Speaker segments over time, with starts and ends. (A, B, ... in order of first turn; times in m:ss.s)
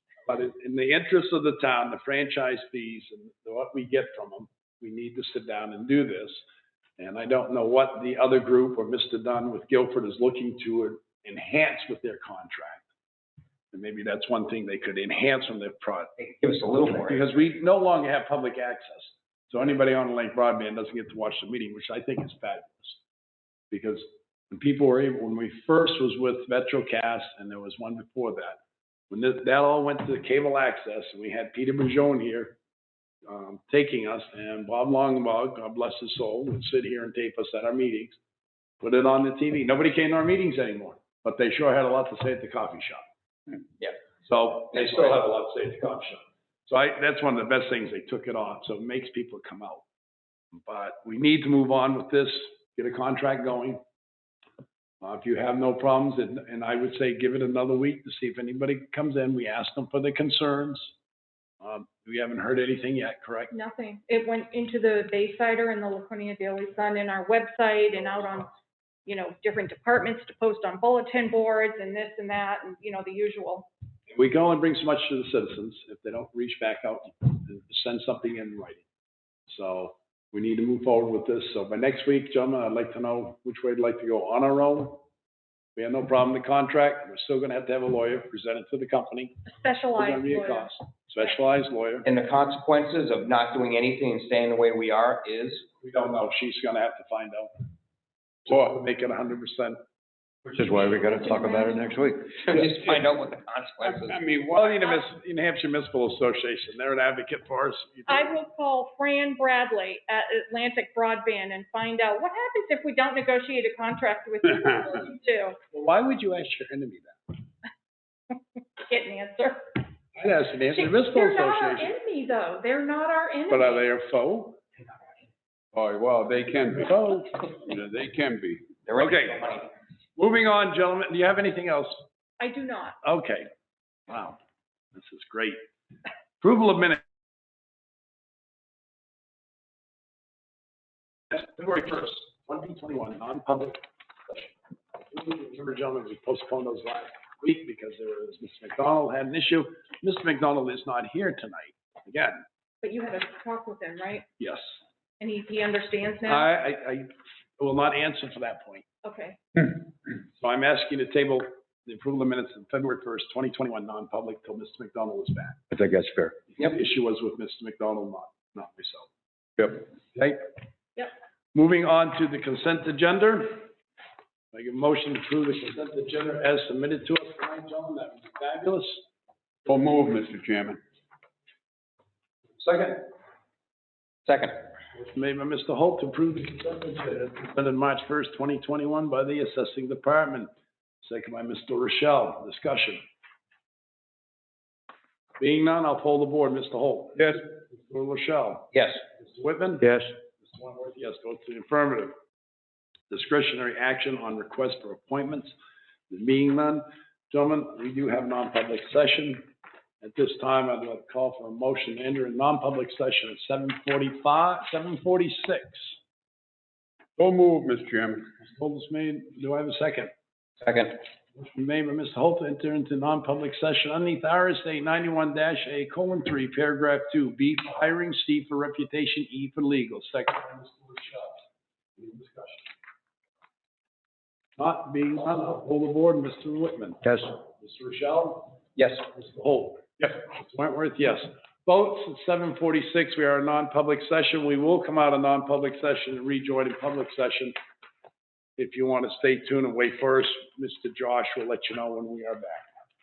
0:00.2-0:06.4 A
0:07.0-0:12.9 A
0:13.7-0:16.1 A
0:16.2-0:17.2 B
0:16.9-0:23.0 A
0:23.7-0:32.6 A
0:33.3-0:38.2 A
0:38.8-0:43.0 A
0:44.2-0:49.8 A
0:44.7-0:45.2 B
0:50.5-0:53.8 A
0:55.0-1:00.9 A
1:01.6-1:03.5 A
1:03.5-1:08.5 C
1:09.0-1:13.7 C
1:14.1-1:18.8 A
1:19.5-1:25.0 A
1:25.8-1:29.4 A
1:29.5-1:30.7 C
1:29.9-1:32.0 A
1:32.0-1:35.6 B
1:35.8-1:37.5 A
1:38.4-1:39.8 A
1:40.6-1:44.2 B
1:40.6-1:42.0 C
1:42.6-1:43.0 D
1:43.8-1:44.8 D
1:44.5-1:48.4 A
1:48.1-1:55.6 C
1:55.7-1:57.4 A
1:58.8-1:59.6 C
2:00.2-2:01.9 A
2:00.7-2:03.8 C
2:03.5-2:04.6 A
2:05.7-2:08.7 D
2:06.8-2:07.4 A
2:08.8-2:09.7 B
2:09.0-2:09.6 A
2:10.2-2:12.0 A
2:12.4-2:13.0 C
2:13.0-2:13.5 A
2:14.1-2:14.4 A
2:14.9-2:15.6 A
2:16.4-2:17.0 A
2:21.3-2:32.4 A
2:32.8-2:34.2 C
2:34.4-2:34.7 A
2:35.2-2:36.5 C
2:36.2-2:38.8 A
2:39.0-2:39.4 C
2:40.2-2:45.6 A
2:45.9-2:46.3 D
2:46.5-2:49.1 A
2:50.1-2:50.4 A
2:51.5-2:53.7 A
2:54.5-2:59.0 A
2:59.7-3:00.8 D
3:02.6-3:03.0 B
3:04.2-3:04.6 B
3:04.9-3:10.5 A
3:11.0-3:13.0 A
3:15.4-3:19.8 A
3:17.2-3:17.4 D
3:18.7-3:19.0 B
3:19.8-3:20.1 D
3:20.4-3:22.1 A
3:23.1-3:25.5 A
3:26.1-3:29.5 A
3:30.0-3:35.9 A
3:37.2-3:38.2 D
3:38.4-3:40.1 A
3:40.6-3:40.9 B
3:41.3-3:51.4 A
3:52.0-3:52.7 A
3:54.6-3:58.6 A
3:58.8-3:59.0 B
3:59.1-4:07.5 A
4:08.6-4:12.7 A